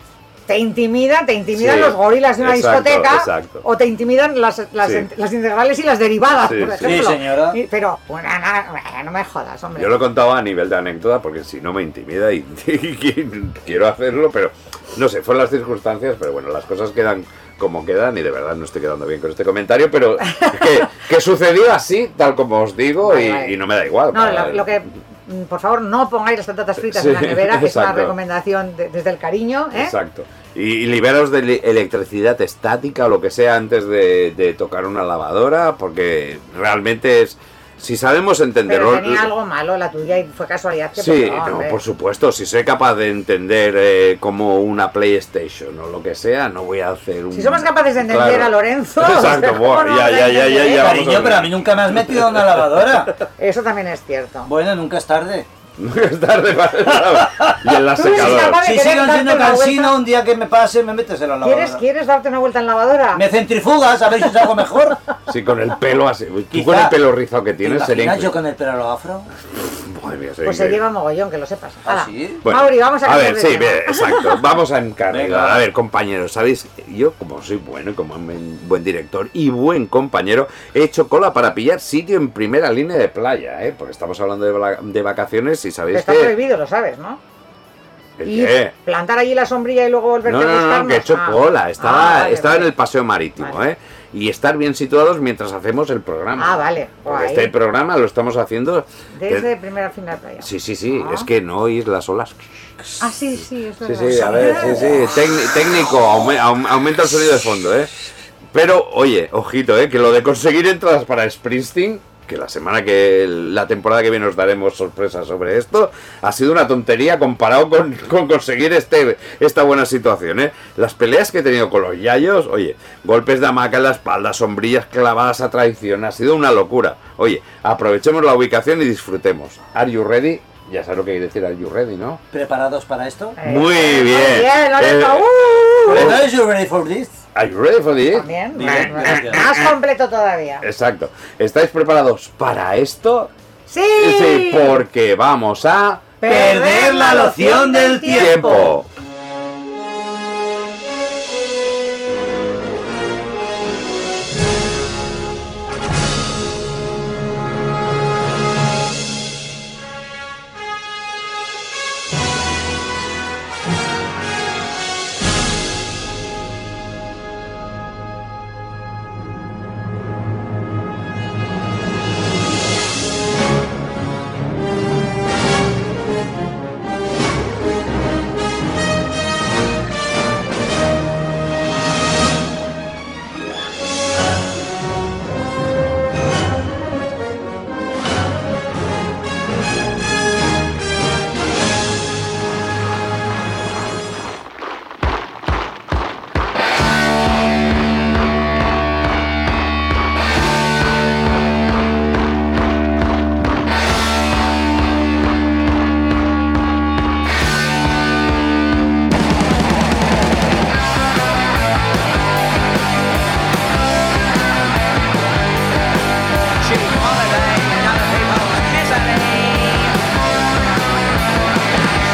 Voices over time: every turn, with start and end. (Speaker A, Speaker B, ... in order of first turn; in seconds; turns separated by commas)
Speaker A: 0.5-9.9, Speaker B: 1.5-3.6, Speaker B: 4.8-5.1, Speaker B: 6.4-7.1, Speaker C: 6.8-7.6, Speaker B: 9.8-24.9, Speaker A: 20.3-20.9, Speaker A: 23.0-23.6, Speaker A: 24.1-29.9, Speaker B: 26.8-28.2, Speaker B: 29.7-39.3, Speaker A: 38.7-41.8, Speaker B: 41.0-52.5, Speaker A: 47.3-51.0, Speaker C: 50.8-53.1, Speaker A: 53.4-54.5, Speaker C: 54.5-55.5, Speaker B: 55.8-58.6, Speaker C: 57.0-61.8, Speaker A: 58.0-60.0, Speaker A: 61.4-63.2, Speaker C: 63.1-65.0, Speaker B: 65.3-68.4, Speaker C: 66.5-67.0, Speaker C: 67.6-69.3, Speaker B: 69.6-70.8, Speaker A: 70.4-74.3, Speaker C: 71.9-72.4, Speaker B: 72.4-86.3, Speaker C: 75.1-75.6, Speaker A: 85.9-87.2, Speaker B: 88.2-88.7, Speaker A: 88.3-92.7, Speaker B: 90.2-99.5, Speaker A: 96.4-97.5, Speaker A: 99.2-101.3, Speaker B: 100.4-102.5, Speaker A: 103.0-105.0, Speaker B: 103.8-107.9, Speaker C: 104.2-105.1, Speaker B: 108.5-132.2, Speaker C: 132.3-133.4, Speaker A: 133.4-136.2, Speaker B: 133.4-136.3, Speaker C: 135.9-137.2, Speaker B: 137.3-139.7, Speaker A: 138.1-140.6, Speaker C: 138.6-139.4, Speaker B: 140.6-143.3, Speaker A: 143.7-144.8, Speaker B: 143.9-146.1, Speaker A: 146.2-148.7, Speaker C: 146.2-148.7, Speaker B: 148.1-148.9, Speaker C: 216.6-219.9